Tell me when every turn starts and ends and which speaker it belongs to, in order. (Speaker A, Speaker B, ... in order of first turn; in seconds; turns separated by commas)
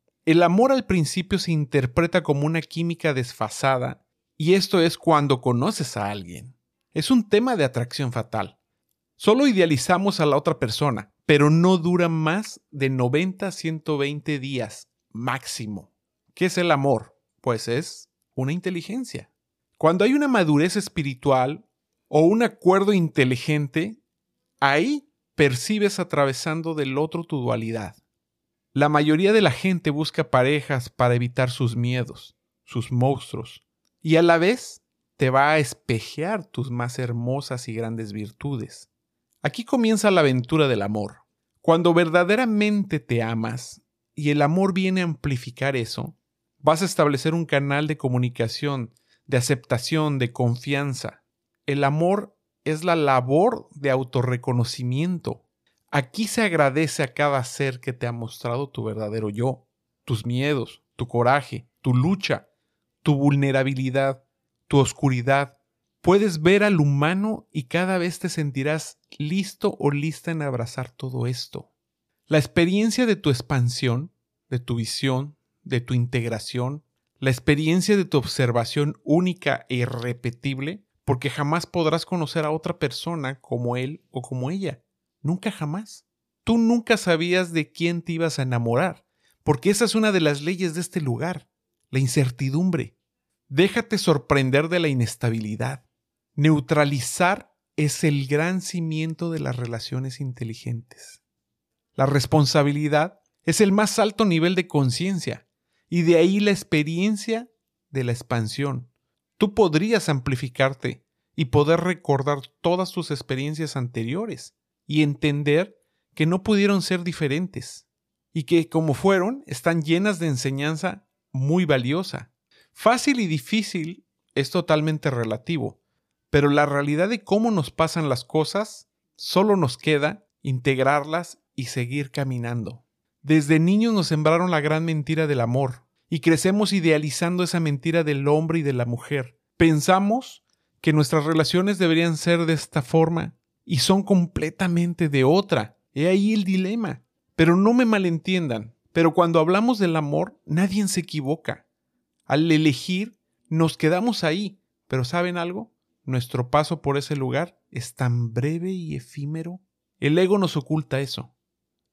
Speaker A: 0.3-8.6, Speaker A: 9.2-24.0, Speaker A: 24.6-28.0, Speaker A: 28.7-38.9, Speaker A: 39.4-62.5, Speaker A: 63.0-71.7, Speaker A: 72.3-93.0, Speaker A: 93.5-95.8, Speaker A: 96.4-101.2, Speaker A: 102.0-125.8, Speaker A: 126.3-151.6, Speaker A: 152.3-161.3